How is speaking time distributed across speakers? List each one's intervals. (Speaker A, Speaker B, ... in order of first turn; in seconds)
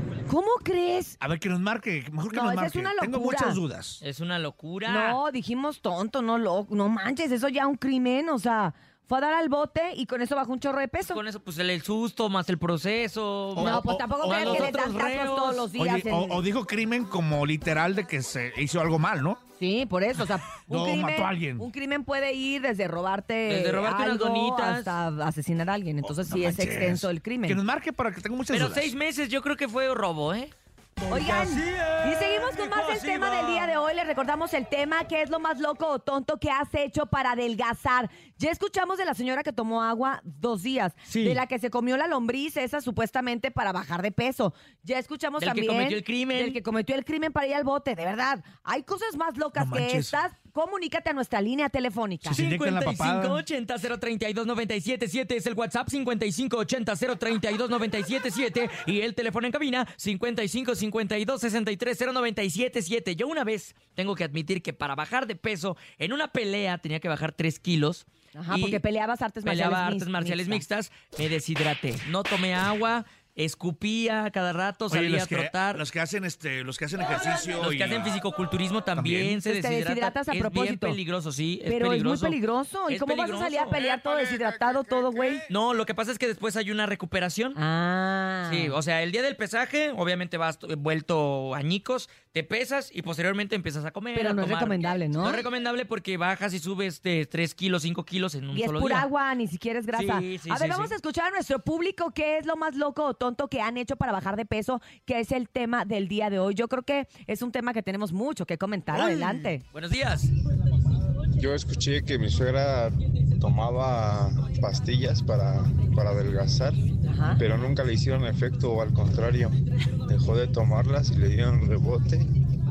Speaker A: 0.3-1.2, 2.3-3.6, 4.8-11.2, 13.6-16.4, 19.6-27.6, 31.1-52.4, 68.3-70.6, 79.4-81.0, 81.7-85.5, 87.5-88.8, 94.1-95.4, 98.5-109.6, 117.0-117.4
Speaker B: 1.2-4.0, 13.5-14.8, 15.8-19.4, 20.6-21.7, 26.0-28.9, 49.5-50.2, 52.2-53.4, 74.9-78.1, 79.0-79.3
Speaker C: 4.0-5.2, 11.1-15.7, 23.5-25.0, 28.5-33.8, 41.1-41.4, 45.4-46.6, 52.3-68.8, 69.4-75.8, 77.6-83.8, 85.5-87.6, 88.5-99.1, 99.9-100.9, 108.9-110.3
Speaker D: 111.4-116.8, 117.3-119.5, 120.1-122.3